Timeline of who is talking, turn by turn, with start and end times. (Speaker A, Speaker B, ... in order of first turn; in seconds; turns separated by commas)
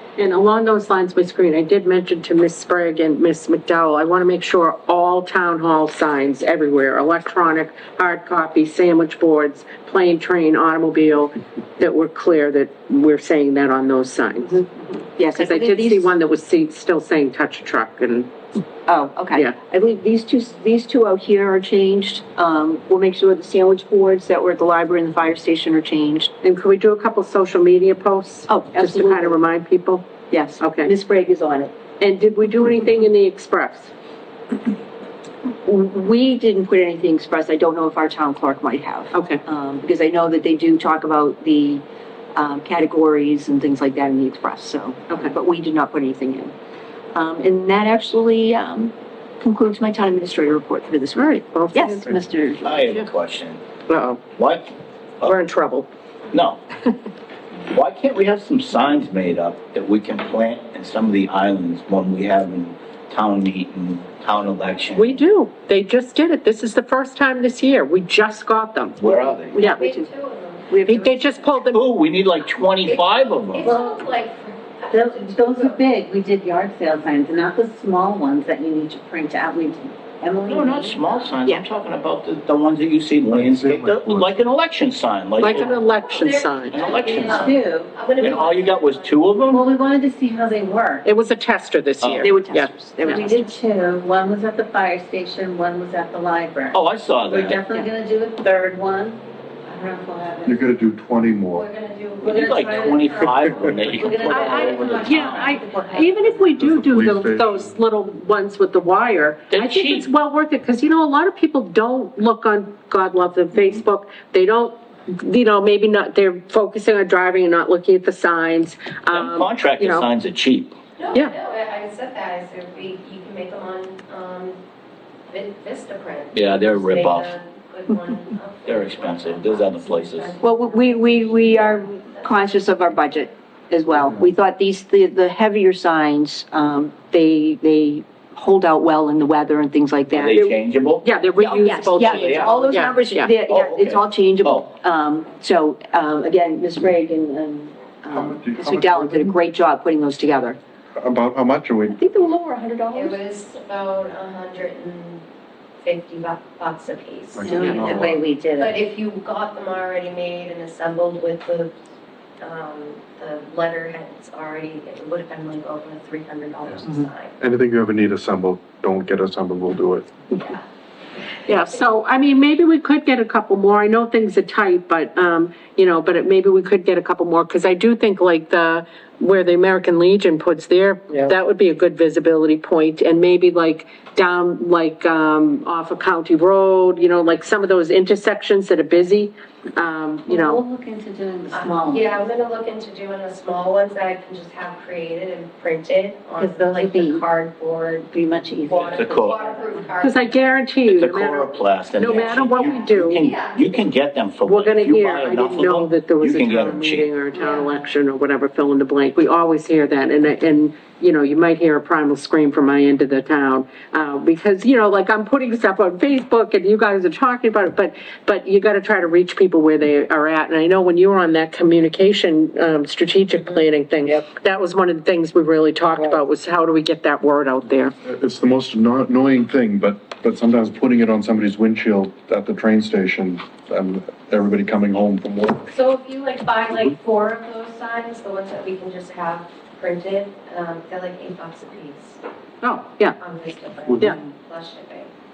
Speaker A: 0.2-18.3, Speaker B: 15.2-16.1, Speaker B: 18.9-26.3, Speaker A: 26.4-30.0, Speaker B: 28.5-29.4, Speaker B: 30.3-31.7, Speaker A: 30.6-30.9, Speaker A: 32.0-33.9, Speaker B: 35.6-41.8, Speaker A: 39.1-39.4, Speaker B: 42.3-46.5, Speaker B: 47.1-53.0, Speaker A: 51.1-52.1, Speaker C: 52.6-53.6, Speaker A: 53.9-54.2, Speaker C: 54.4-55.4, Speaker A: 55.2-55.9, Speaker C: 56.3-56.6, Speaker C: 57.7-65.2, Speaker A: 64.9-69.0, Speaker C: 69.0-69.6, Speaker B: 69.0-70.1, Speaker D: 69.5-71.6, Speaker B: 70.7-71.1, Speaker A: 70.8-71.8, Speaker C: 71.7-73.8, Speaker D: 72.8-75.8, Speaker E: 73.6-74.0, Speaker E: 74.9-81.2, Speaker C: 80.5-85.8, Speaker F: 83.3-84.3, Speaker A: 85.4-87.0, Speaker D: 85.6-89.4, Speaker C: 86.7-87.5, Speaker E: 86.9-87.9, Speaker C: 88.2-89.7, Speaker E: 89.5-91.0, Speaker A: 91.0-93.2, Speaker C: 92.0-92.3, Speaker B: 92.2-93.5, Speaker E: 93.0-100.6, Speaker C: 96.7-97.6, Speaker F: 100.5-101.7, Speaker D: 101.5-103.8, Speaker E: 102.2-106.5, Speaker C: 102.3-105.6, Speaker F: 103.3-103.9, Speaker A: 104.2-120.1, Speaker D: 105.0-106.1, Speaker F: 106.5-107.7, Speaker C: 109.5-110.1, Speaker C: 119.1-120.8, Speaker D: 121.0-124.6, Speaker D: 125.3-132.7, Speaker C: 126.3-127.4, Speaker C: 128.7-130.3, Speaker B: 130.4-140.6, Speaker F: 134.0-134.3, Speaker C: 140.1-141.1, Speaker A: 141.0-143.3, Speaker B: 141.4-150.6, Speaker C: 142.0-142.7, Speaker C: 143.4-144.7, Speaker F: 148.1-149.3, Speaker F: 150.9-152.0, Speaker B: 151.9-153.2, Speaker D: 152.9-155.2, Speaker D: 155.8-161.7, Speaker F: 157.3-158.2, Speaker E: 157.4-158.7, Speaker D: 162.4-167.3, Speaker F: 166.7-170.1, Speaker A: 171.5-190.6, Speaker E: 190.3-192.3, Speaker D: 191.5-200.5, Speaker E: 196.3-197.3, Speaker E: 198.1-199.7, Speaker C: 198.9-199.4, Speaker A: 200.0-203.3, Speaker C: 200.8-207.1, Speaker D: 202.0-203.8, Speaker A: 204.4-227.9, Speaker D: 207.3-207.7, Speaker F: 228.0-235.7, Speaker D: 235.7-242.2, Speaker A: 242.6-243.2, Speaker D: 243.2-245.1, Speaker F: 243.9-244.2